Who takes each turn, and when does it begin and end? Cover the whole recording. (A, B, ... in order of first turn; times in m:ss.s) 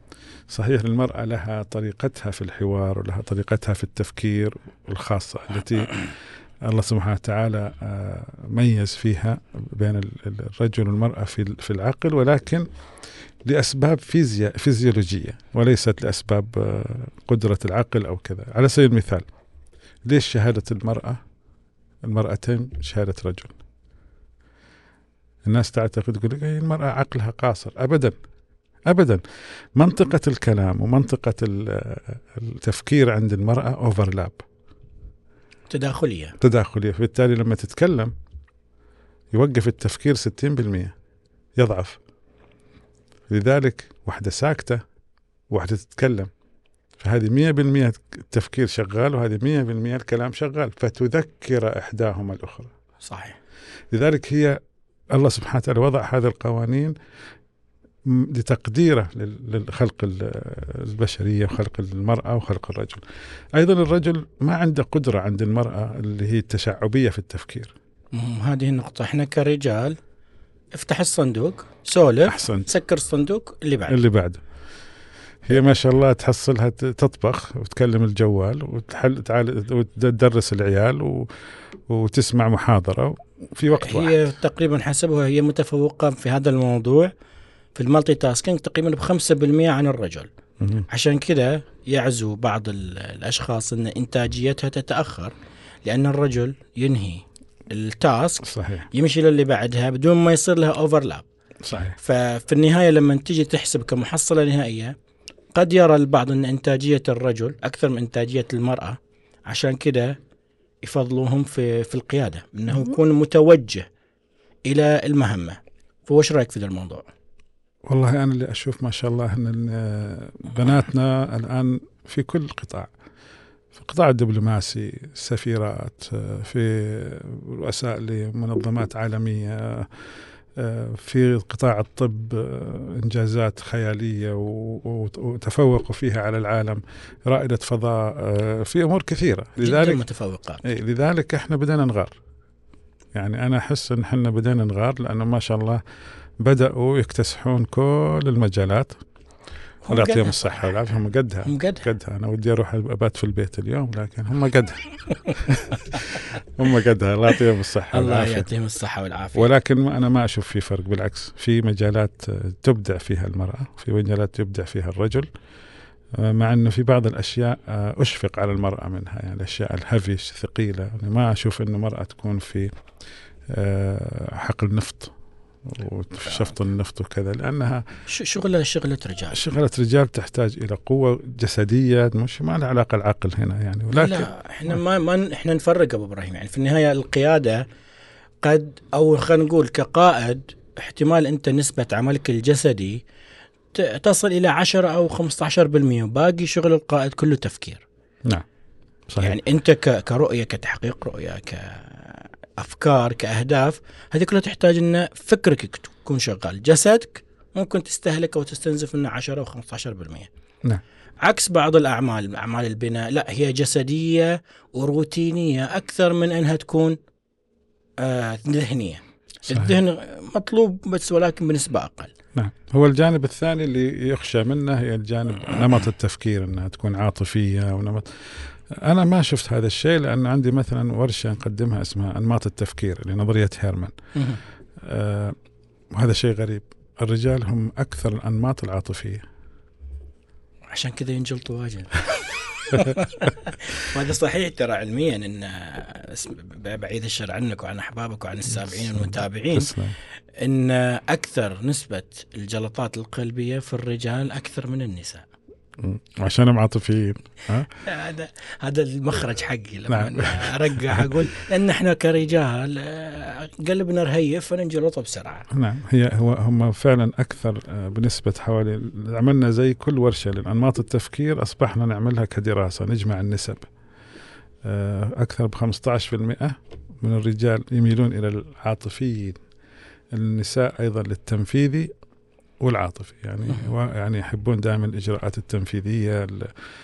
0:00.5-0:12.7 A
0:13.4-0:19.3 A
0:20.1-0:21.2 A
0:22.0-0:23.5 A
0:25.4-0:28.1 A
0:28.9-0:29.2 A
0:29.7-0:34.4 A
0:35.7-0:36.4 B
0:36.4-0:38.1 A
0:39.3-0:40.9 A
0:41.6-0:42.0 A
0:43.3-0:44.8 A
0:45.5-0:46.3 A
0:47.0-0:52.7 A
0:53.0-0:53.4 B
0:53.9-0:54.6 A
0:55.1-0:56.9 A
0:58.1-1:03.0 A
1:03.6-1:07.7 A
1:08.1-1:10.0 B
1:10.7-1:14.0 B
1:12.2-1:12.7 A
1:13.9-1:14.4 A
1:15.4-1:21.3 A
1:21.9-1:24.3 A
1:23.8-1:27.1 B
1:27.7-1:30.3 B
1:30.6-1:30.9 A
1:30.9-1:35.3 B
1:35.8-1:41.2 B
1:38.4-1:38.9 A
1:41.6-1:42.0 A
1:42.0-1:45.0 B
1:45.5-1:50.2 B
1:50.8-1:53.9 B
1:54.7-1:57.1 B
1:57.9-2:02.9 A
2:03.7-2:09.9 A
2:10.6-2:20.0 A
2:19.6-2:20.6 B
2:20.6-2:22.2 A
2:23.1-2:25.8 A
2:26.4-2:29.0 A
2:29.8-2:30.8 B
2:29.9-2:38.5 A
2:31.4-2:31.8 B
2:37.9-2:39.5 B
2:39.3-2:45.3 A
2:46.1-2:52.7 A
2:53.5-2:55.1 A
2:55.7-2:57.8 A
2:58.1-2:59.4 B
2:59.3-3:04.3 A
3:03.9-3:07.6 B
3:08.4-3:13.0 B
3:13.7-3:17.8 B
3:19.1-3:19.4 A
3:19.2-3:30.3 B
3:31.2-3:37.0 B
3:38.0-3:42.1 B
3:39.5-3:39.8 A
3:42.3-3:53.9 A
3:54.1-3:54.4 B
3:54.8-3:55.4 A
3:55.9-3:59.2 A
4:00.7-4:09.7 B
4:02.7-4:03.0 A
4:08.5-4:10.0 A
4:10.3-4:15.2 B
4:15.8-4:17.7 A
4:17.8-4:25.5 B
4:19.9-4:21.3 A
4:25.5-4:33.7 A
4:34.6-4:39.4 A
4:40.1-4:41.9 A
4:42.6-4:46.5 A